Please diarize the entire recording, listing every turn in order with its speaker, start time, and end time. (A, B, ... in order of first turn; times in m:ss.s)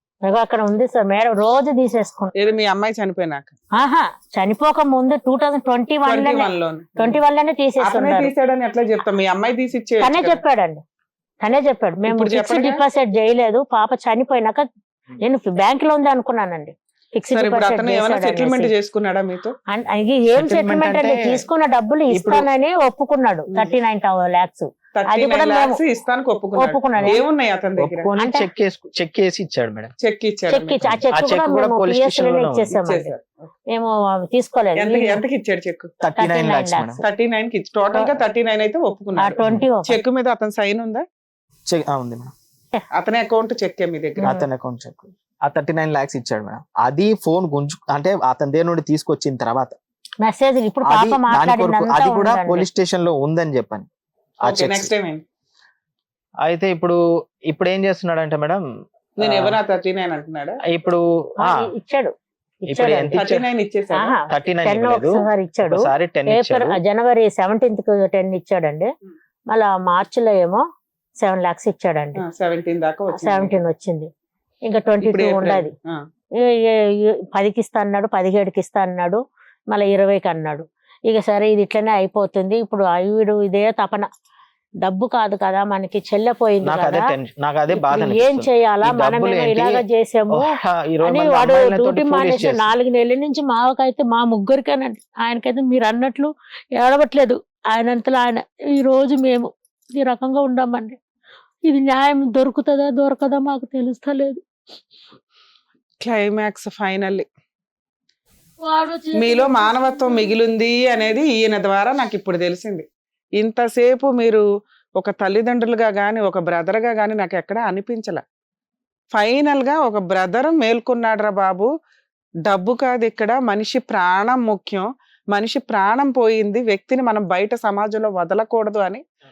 0:00.2-0:02.3 A
0:02.4-0:03.5 B
0:03.8-0:08.3 A
0:06.0-0:07.2 B
0:07.8-0:10.4 B
0:10.0-0:10.8 A
0:11.4-0:14.6 A
0:12.1-0:12.8 B
0:15.2-0:18.7 A
0:17.3-0:19.5 B
0:19.7-0:25.8 A
0:20.3-0:21.4 C
0:22.1-0:22.5 C
0:25.0-0:28.1 B
0:26.6-0:27.2 A
0:27.8-0:29.9 C
0:28.2-0:28.5 A
0:30.0-0:30.9 B
0:30.5-0:33.1 A
0:30.8-0:32.7 C
0:32.7-0:33.2 B
0:33.7-0:35.2 A
0:34.8-0:35.9 B
0:36.0-0:37.0 C
0:36.2-0:37.0 A
0:37.0-0:41.0 B
0:39.2-0:40.0 A
0:39.4-0:39.6 C
0:41.7-0:42.3 C
0:43.0-0:44.3 B
0:44.2-0:44.4 A
0:44.2-0:49.7 C
0:50.2-0:52.7 A
0:50.8-0:53.9 C
0:54.4-0:54.9 C
0:54.4-0:55.2 B
0:56.4-0:58.6 C
0:59.2-0:59.6 C
0:59.2-1:00.6 B
1:00.6-1:01.7 C
1:01.4-1:03.3 A
1:02.7-1:03.4 C
1:03.2-1:04.2 B
1:03.9-1:08.9 A
1:04.3-1:06.8 C
1:09.5-1:10.6 A
1:11.2-1:12.2 A
1:12.2-1:13.5 B
1:13.1-1:14.1 A
1:14.6-1:15.7 A
1:15.0-1:16.0 B
1:16.4-1:24.1 A
1:24.8-1:27.1 A
1:26.6-1:32.7 C
1:27.7-1:30.5 A
1:31.0-1:41.0 A
1:41.6-1:44.4 A
1:46.0-1:47.2 B
1:48.6-1:50.3 A
1:49.1-1:52.9 B
1:53.4-1:54.4 B
1:55.0-1:58.2 B
1:59.1-2:01.7 B
2:02.5-2:09.0 B